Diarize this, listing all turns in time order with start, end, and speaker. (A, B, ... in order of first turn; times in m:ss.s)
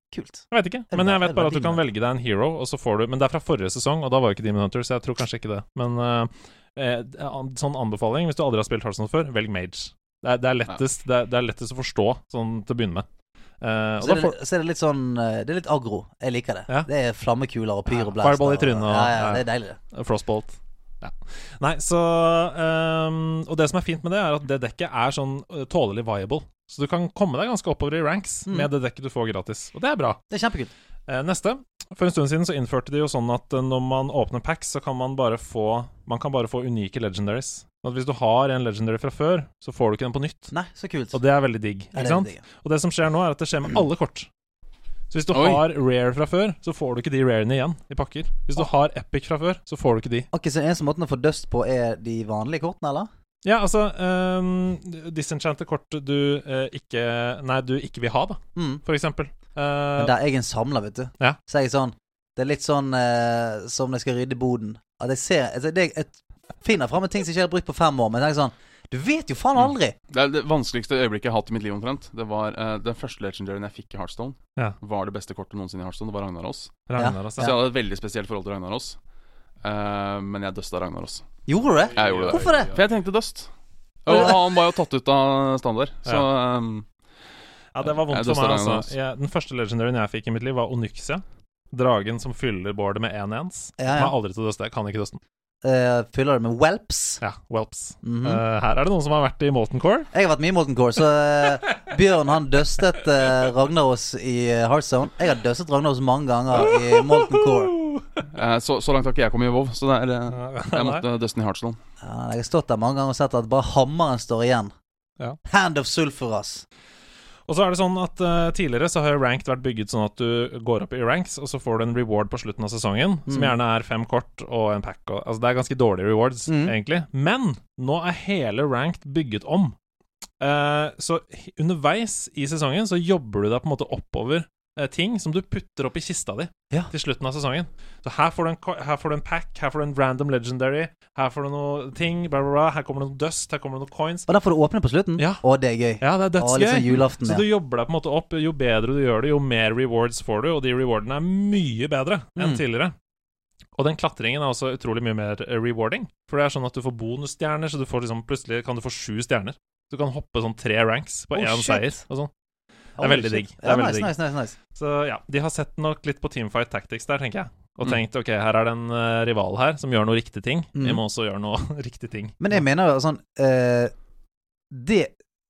0:00.1-0:01.8 A
0:00.5-0:13.0 B
0:13.6-0:14.4 B
0:14.0-0:19.8 A
0:17.9-0:30.2 B
0:30.3-0:30.7 A
0:31.1-0:40.5 B
0:40.5-0:41.2 A
0:41.1-0:44.3 B
0:41.9-0:42.4 A
0:45.1-0:50.3 B
0:45.3-0:45.6 C
0:50.3-0:53.1 A
0:53.4-1:00.2 B
0:58.6-0:58.8 A
1:00.0-1:09.9 A
1:10.1-1:19.0 C
1:16.9-1:17.6 B
1:17.0-1:17.6 A
1:19.6-1:21.2 C
1:21.5-1:22.7 A
1:21.8-1:22.8 B
1:22.0-1:23.5 C
1:24.1-1:26.9 C
1:27.7-1:35.2 B
1:27.9-1:28.9 C
1:33.8-1:34.2 A
1:35.6-1:37.2 A
1:37.2-1:40.1 B
1:38.0-1:38.4 A
1:40.1-1:47.8 A
1:46.5-1:48.2 B
1:48.3-1:51.8 C
1:50.3-1:51.0 B
1:52.0-1:54.7 A
1:55.5-1:56.6 A
1:57.5-2:09.8 B
2:03.3-2:03.5 A
2:06.5-2:06.8 A
2:10.4-2:24.3 B
2:24.3-2:27.4 A
2:25.2-2:25.4 B
2:26.0-2:33.0 B
2:32.4-2:32.6 A
2:33.8-2:42.3 B
2:41.3-2:42.0 A
2:43.0-2:44.6 A
2:43.0-2:44.2 B
2:44.8-2:52.6 B
2:50.8-2:51.0 A
2:52.4-2:53.9 A
2:54.7-2:55.1 A